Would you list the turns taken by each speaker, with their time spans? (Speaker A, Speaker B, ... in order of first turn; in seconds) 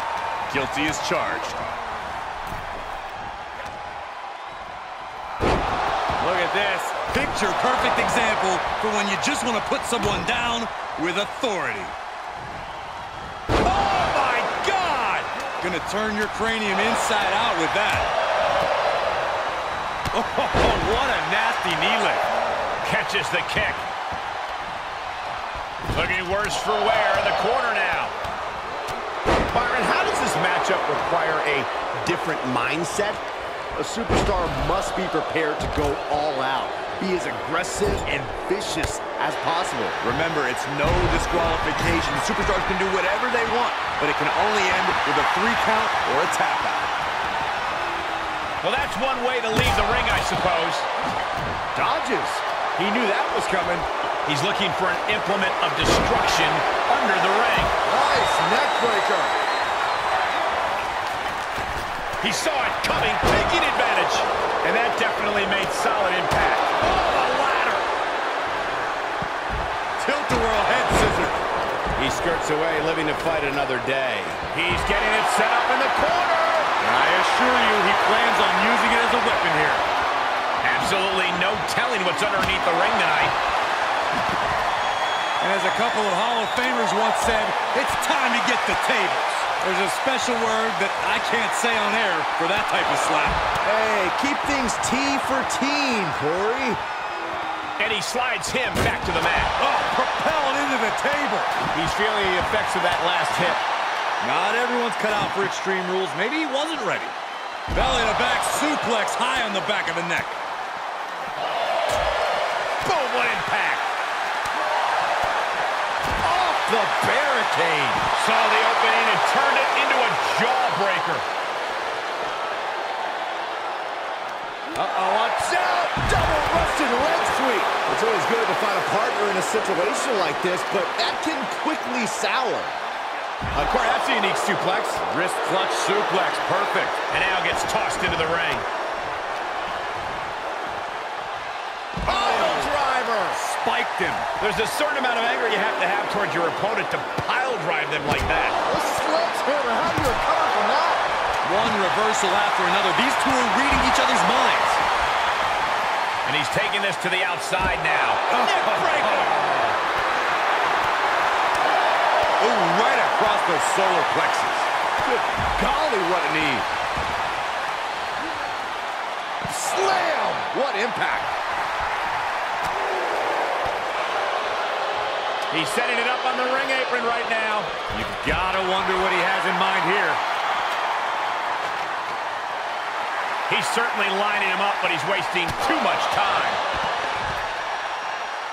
Speaker A: 0.5-1.6, 6.2-11.9, 15.6-18.1, 20.1-22.3, 40.0-46.9, 70.0-71.4, 76.8-79.8, 85.4-93.4, 99.6-101.5, 104.2-107.2, 107.7-110.4, 135.0-137.0, 142.1-142.7, 143.3-144.3, 151.4-154.8, 158.3-159.3, 162.4-164.7, 177.9-180.2
Speaker B: 13.6-15.3, 22.8-23.9, 25.9-28.1, 29.5-33.2, 48.6-50.9, 52.8-57.8, 62.2-67.9, 72.0-76.7, 80.6-83.3, 97.8-99.5, 101.7-103.6, 112.8-113.9, 118.1-121.2, 133.5-135.0, 137.1-138.7, 142.0-143.4, 144.4-148.6, 156.2-159.8, 175.5-177.7, 183.5-186.6
Speaker C: 33.7-40.0, 51.8-52.4, 57.9-59.3, 93.6-96.8, 116.2-118.0, 124.7-132.8, 148.7-151.1, 165.0-166.7, 169.5-171.3